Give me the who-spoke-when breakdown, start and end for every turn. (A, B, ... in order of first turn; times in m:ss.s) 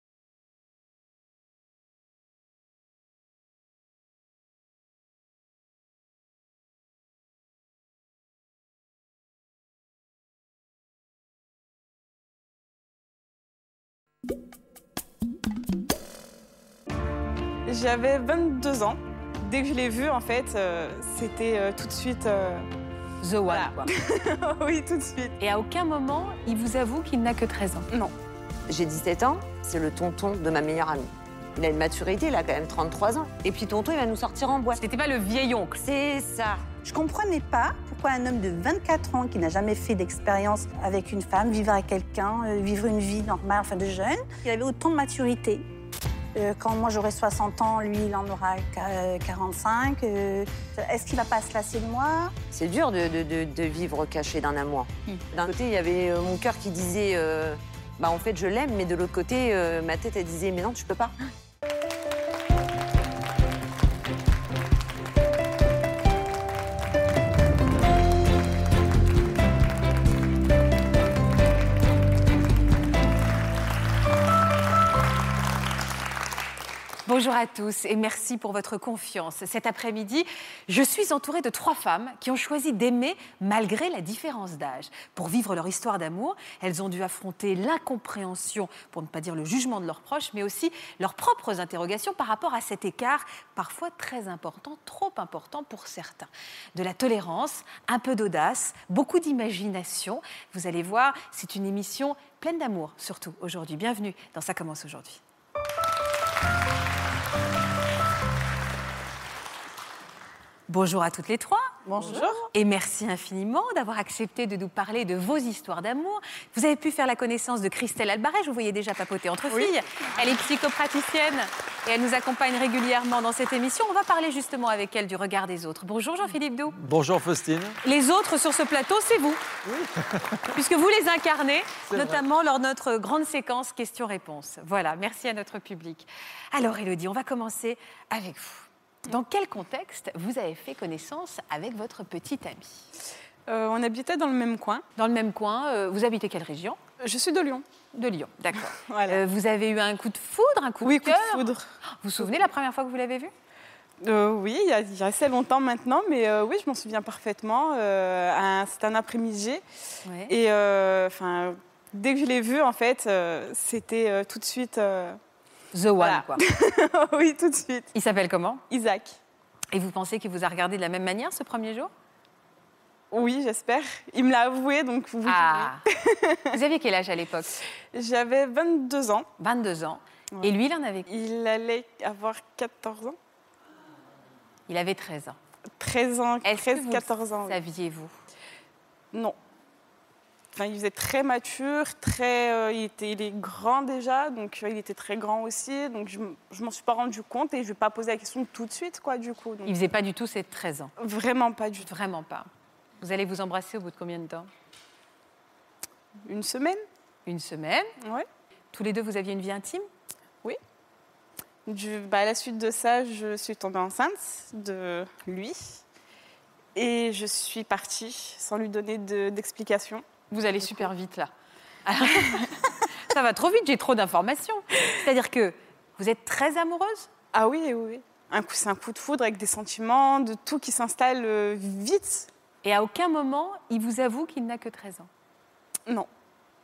0:17.7-0:22.7 A
0:23.2-0:23.9 B
0:23.5-0:25.4 A
0:25.4-0:27.9 B
0:28.7-0:34.8 C
0:34.8-0:35.8 B
0:35.8-0:36.7 C
0:36.8-0:45.6 D
0:46.4-0:52.4 D
0:52.5-1:01.1 C
1:17.1-1:45.2 B
1:50.7-2:06.7 B
1:51.9-1:52.3 D
1:52.0-1:52.5 A
2:06.7-2:07.8 E
2:07.8-2:09.4 B
2:09.7-2:10.3 E
2:10.5-2:22.9 B
2:11.9-2:12.2 E
2:23.5-2:24.8 A
2:25.0-2:26.8 B
2:27.0-2:27.6 A
2:27.9-2:33.3 B
2:28.6-2:29.2 A
2:30.8-2:32.4 A
2:34.0-2:39.6 A
2:40.0-2:40.3 B
2:40.3-2:45.2 A
2:45.7-2:46.4 B
2:46.0-2:47.9 A
2:47.9-2:48.6 B
2:48.7-2:49.2 A
2:49.7-2:51.9 B
2:53.1-2:56.6 A
2:55.2-2:55.8 B
2:56.5-2:57.5 B
2:57.9-2:59.3 A
2:59.4-3:01.1 B
3:01.1-3:03.2 A
3:04.7-3:05.4 B
3:05.8-3:07.6 A
3:06.4-3:08.1 B
3:10.5-3:19.8 A
3:19.7-3:20.9 B
3:21.0-3:21.9 A
3:21.8-3:22.5 B
3:23.0-3:24.5 B
3:26.2-3:26.8 A
3:27.3-3:27.9 B
3:28.0-3:28.3 A
3:28.7-3:29.9 B
3:31.7-3:35.8 A
3:36.8-3:40.1 A
3:40.3-3:41.3 B
3:41.8-3:47.1 B
3:47.3-3:52.3 A
3:52.6-3:55.1 B